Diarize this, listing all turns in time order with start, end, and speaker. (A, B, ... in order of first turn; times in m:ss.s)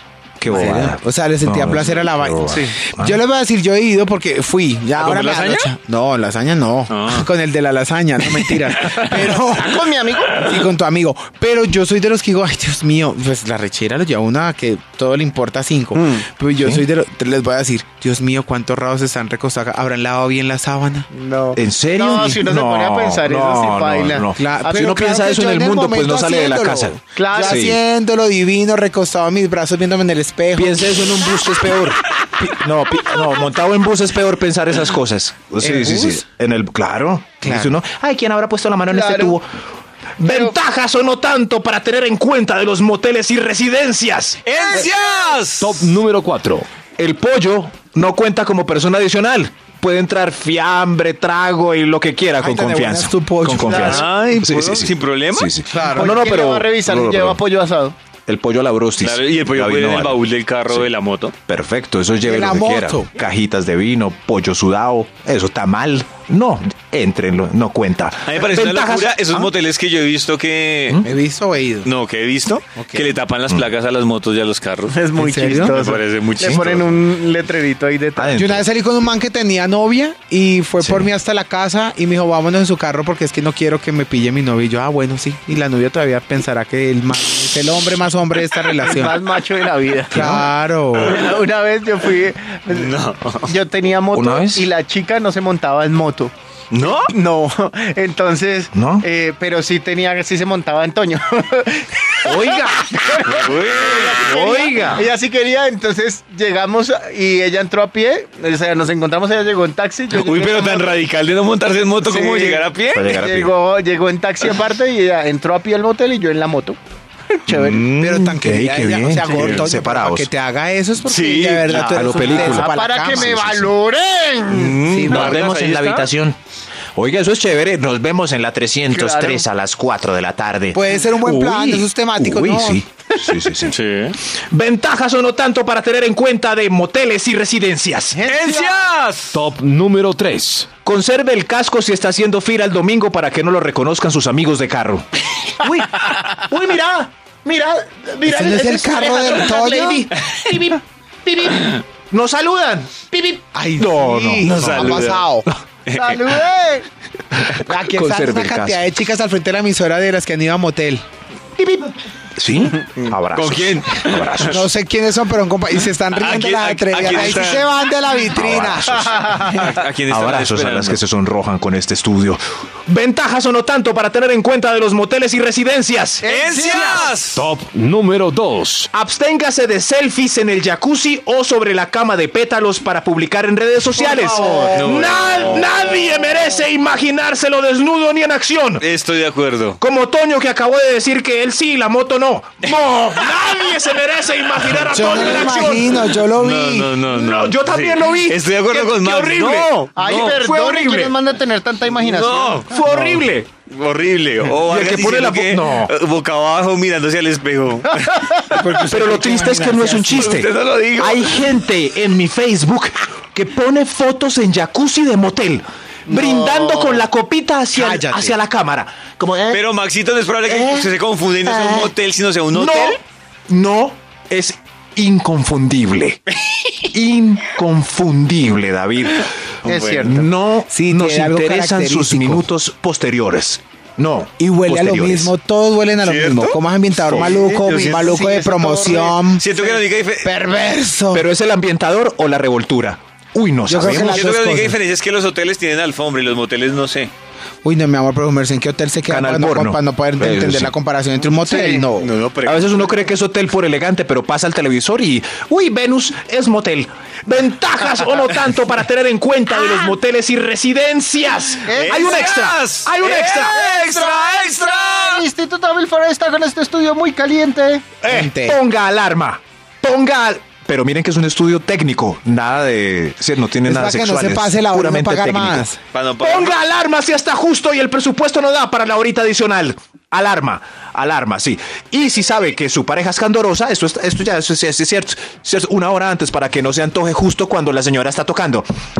0:00.4-0:03.2 A
0:00.5-0:21.1 B
0:05.0-0:05.7 C
0:06.9-0:07.3 C
0:08.2-0:09.2 C
0:09.1-0:10.5 D
0:15.9-0:16.2 D
0:16.6-0:16.8 A
0:21.1-0:24.3 D
0:21.5-0:27.8 A
0:24.3-0:31.2 B
0:27.1-0:27.7 D
0:30.6-0:39.5 A
0:35.6-0:36.2 B
0:37.4-0:37.8 B
0:38.9-0:39.4 D
0:40.2-0:44.9 A
0:40.2-0:40.6 D
0:44.4-0:45.8 C
0:45.6-0:46.6 E
0:47.0-0:57.4 A
0:52.4-0:54.1 B
0:53.7-0:54.0 D
0:53.7-0:55.5 C
0:55.7-0:56.2 B
0:55.7-0:57.9 D
0:58.2-1:00.9 A
0:59.0-1:01.3 C
1:01.4-1:09.5 A
1:02.2-1:03.1 B
1:08.2-1:11.0 C
1:11.0-1:11.9 B
1:11.8-1:17.0 C
1:12.8-1:13.1 B
1:14.9-1:18.3 D
1:15.2-1:15.8 B
1:16.4-1:16.6 A
1:18.2-1:18.6 A
1:18.3-1:29.2 B
1:20.8-1:21.1 A
1:28.8-1:30.3 D
1:30.1-1:30.5 A
1:30.1-1:31.2 B
1:31.0-1:51.0 D
1:32.7-1:33.5 C
1:34.1-1:34.6 A
1:36.7-1:37.1 C
1:38.7-1:39.0 A
1:42.2-1:43.0 A
1:43.2-1:44.6 C
1:44.3-1:45.0 A
1:50.1-1:53.2 C
1:52.0-1:56.8 D
1:52.9-1:53.5 A
1:57.3-1:57.9 D
1:57.5-2:00.3 A
1:57.5-1:58.2 C
1:57.9-2:03.3 B
2:01.0-2:02.5 C
2:01.8-2:03.7 A
2:02.4-2:04.8 D
2:04.5-2:06.1 C
2:04.9-2:05.4 B
2:05.1-2:06.4 A
2:06.9-2:13.8 A
2:08.9-2:09.4 D
2:10.7-2:12.8 B
2:13.7-2:14.2 C
2:14.5-2:18.2 A
2:18.1-2:18.9 D
2:18.2-2:19.4 C
2:19.3-2:20.7 E
2:20.8-2:27.1 A
2:27.4-2:28.6 D
2:28.2-2:30.1 B
2:28.4-2:35.0 A
2:29.1-2:29.4 D
2:33.5-2:35.4 B
2:34.4-2:36.4 C
2:35.9-2:36.9 D
2:37.6-2:41.0 B
2:37.7-2:38.9 A
2:41.6-2:44.6 A
2:42.9-2:44.6 C
2:44.4-2:49.1 B
2:46.1-2:47.7 C
2:48.3-2:56.3 A
2:49.1-2:49.4 D
2:49.4-2:51.0 C
2:56.2-2:57.1 D
2:56.2-2:57.5 C
2:57.3-2:58.9 E
2:58.9-3:08.8 A
3:04.0-3:04.8 B
3:04.2-3:04.7 D
3:04.8-3:05.7 C
3:08.8-3:09.8 C
3:09.8-3:16.1 A
3:13.2-3:13.7 C
3:14.9-3:16.9 B
3:16.2-3:20.4 C
3:17.1-3:21.1 A
3:20.0-3:23.2 D
3:21.9-3:22.7 C
3:22.7-3:23.5 A
3:23.7-3:28.4 C
3:24.7-3:25.9 A
3:28.2-3:28.6 D
3:28.5-3:30.4 B
3:28.8-3:39.6 A
3:30.1-3:31.6 C
3:36.1-3:37.1 D
3:37.7-3:38.4 B
3:39.5-3:43.0 C
3:40.5-3:40.9 A
3:41.4-3:41.9 A
3:42.5-3:46.2 A
3:46.9-3:49.3 A
3:49.6-3:50.2 C
3:49.6-3:50.2 D
3:50.0-3:55.3 A
3:50.7-3:52.5 B
3:54.4-3:59.5 B
3:56.0-3:58.2 C
3:57.8-3:59.8 D
3:59.3-4:00.3 C
4:00.2-4:01.2 B
4:01.1-4:04.3 A
4:03.6-4:04.8 B
4:03.9-4:07.1 C
4:07.6-4:12.1 B
4:09.0-4:10.7 A
4:11.4-4:13.1 C
4:12.4-4:23.6 A
4:21.6-4:22.4 D
4:21.8-4:25.3 C
4:23.4-4:27.9 D
4:28.0-4:35.7 A
4:28.1-4:28.6 B
4:33.6-4:35.8 B
4:35.9-4:36.6 C
4:36.2-4:48.6 A